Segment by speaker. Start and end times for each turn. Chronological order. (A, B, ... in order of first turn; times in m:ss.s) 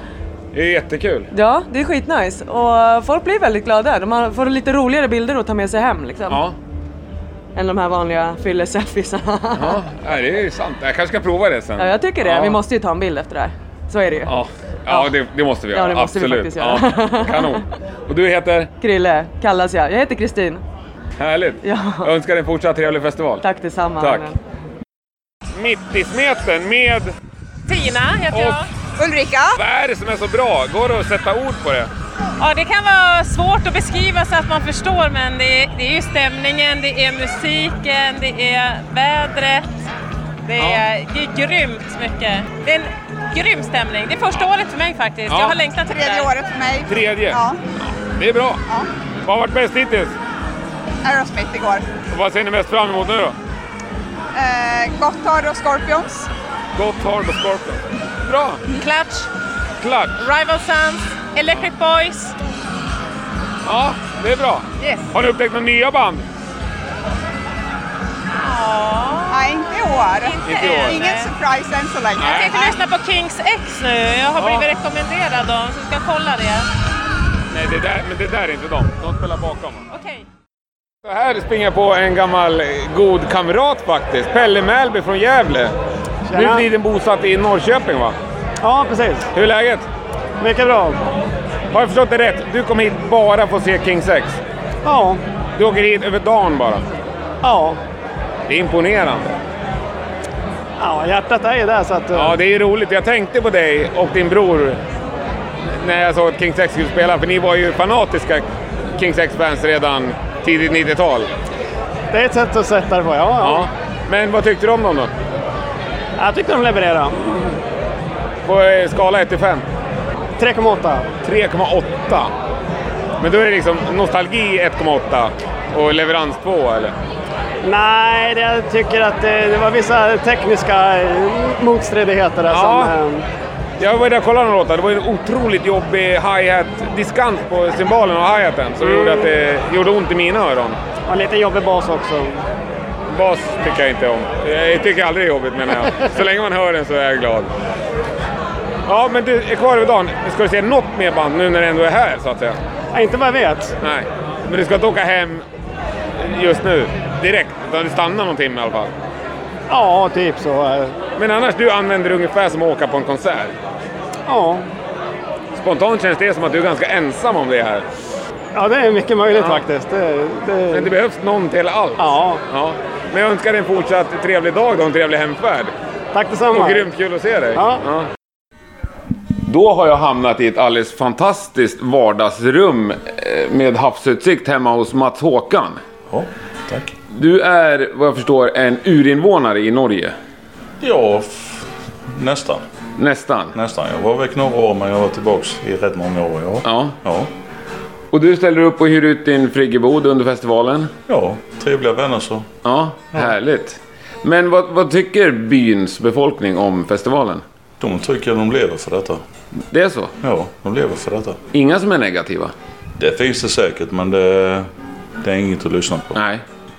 0:00.5-0:01.3 A
0:01.3-0:06.4 B
0:06.3-0:06.5 A
0:07.6-0:09.8 B
0:09.6-0:12.6 A
0:11.8-0:14.3 B
0:14.3-0:18.7 A
0:15.7-0:17.6 B
0:18.8-0:20.6 B
0:21.2-0:23.4 A
0:21.6-0:22.1 B
0:23.4-0:24.4 B
0:24.0-0:24.3 A
0:25.5-0:27.1 A
0:27.7-0:28.6 C
0:28.3-0:28.6 A
0:29.0-0:29.5 D
0:29.6-0:31.9 A
0:32.4-0:39.6 C
0:40.4-0:46.4 C
0:40.6-0:40.8 A
0:45.3-0:45.6 A
0:45.9-0:47.6 D
0:46.8-0:48.6 A
0:49.2-0:50.2 A
0:51.0-0:51.8 D
0:52.1-0:53.4 A
0:54.3-0:56.3 D
0:56.7-0:58.6 A
0:58.7-0:59.3 C
0:59.8-1:00.1 A
1:00.2-1:02.4 C
1:03.6-1:06.2 A
1:08.4-1:09.5 C
1:09.3-1:12.8 D
1:10.2-1:11.3 C
1:10.4-1:11.0 A
1:12.2-1:12.6 A
1:12.2-1:16.7 C
1:14.4-1:14.7 A
1:17.5-1:19.8 A
1:19.9-1:20.2 C
1:21.0-1:25.8 A
1:26.3-1:26.6 E
1:26.3-1:28.2 A
1:28.6-1:29.2 E
1:29.3-1:29.8 A
1:30.4-1:31.0 E
1:31.7-1:34.4 A
1:34.8-1:35.2 E
1:35.6-1:36.8 A
1:37.4-1:37.8 E
1:38.5-1:39.3 A
1:40.8-1:42.3 E
1:42.1-1:44.8 A
1:45.7-1:51.3 A
1:52.1-1:53.6 E
1:53.4-1:55.1 A
1:56.2-1:57.5 E
1:58.4-1:59.6 A
2:00.4-2:01.1 E
2:01.2-2:02.3 A
2:03.2-2:06.9 A
2:07.6-2:13.2 E
2:12.5-2:12.9 A
2:13.8-2:20.8 A
2:18.8-2:19.3 E
2:21.1-2:22.4 E
2:23.1-2:27.5 A
2:28.9-2:32.6 A
2:32.9-2:33.7 E
2:33.8-2:35.4 A
2:36.2-2:38.9 A
2:39.7-2:40.9 E
2:41.2-2:43.5 A
2:44.3-2:44.7 E
2:45.6-2:47.8 A
2:48.5-2:50.9 E
2:49.3-2:49.6 A
2:50.7-2:55.7 A
2:52.0-2:52.4 E
2:56.1-2:56.8 E
2:56.5-2:58.1 A
2:59.4-3:05.8 A
3:06.1-3:06.9 F
3:07.1-3:10.1 A
3:10.8-3:12.6 F
3:13.0-3:13.5 A
3:13.5-3:17.3 F
3:16.6-3:17.0 A
3:18.1-3:20.9 A
3:21.1-3:22.5 F
3:22.6-3:27.4 A
3:27.8-3:29.2 F
3:29.7-3:30.1 A
3:30.2-3:31.4 F
3:31.5-3:32.5 A
3:33.0-3:34.7 F
3:35.2-3:36.1 F
3:36.1-3:36.4 A